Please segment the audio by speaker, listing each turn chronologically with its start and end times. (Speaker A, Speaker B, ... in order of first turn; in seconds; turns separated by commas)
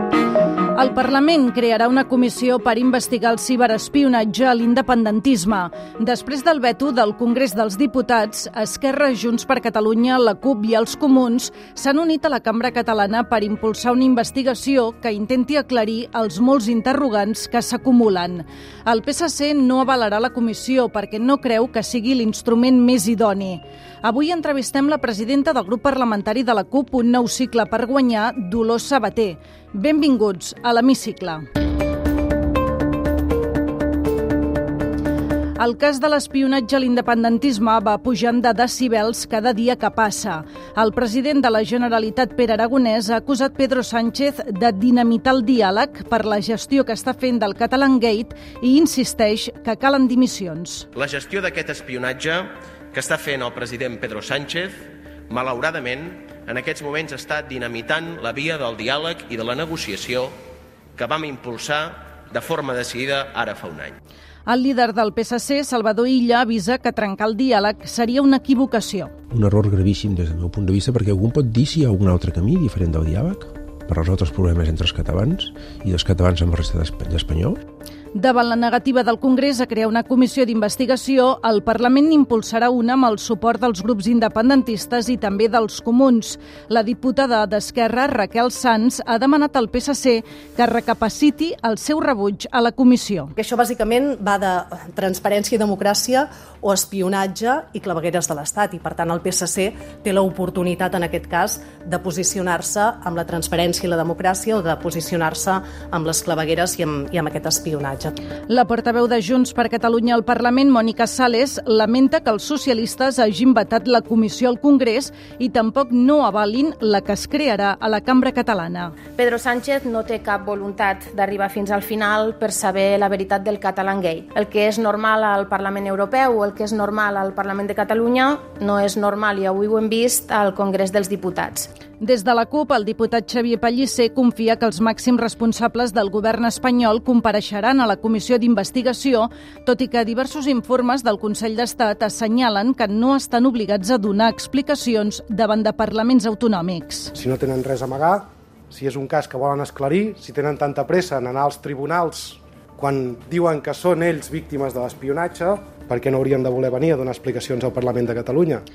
Speaker A: 0.8-31.4, Speaker A: 35.6-50.9, Speaker B: 51.0-60.3, Speaker B: 61.0-64.0, Speaker A: 64.5-69.1, Speaker C: 69.3-77.6, Speaker A: 78.1-93.3, Speaker D: 93.4-108.1, Speaker A: 108.5-119.0, Speaker E: 119.2-131.7, Speaker A: 132.0-147.1, Speaker F: 147.2-158.6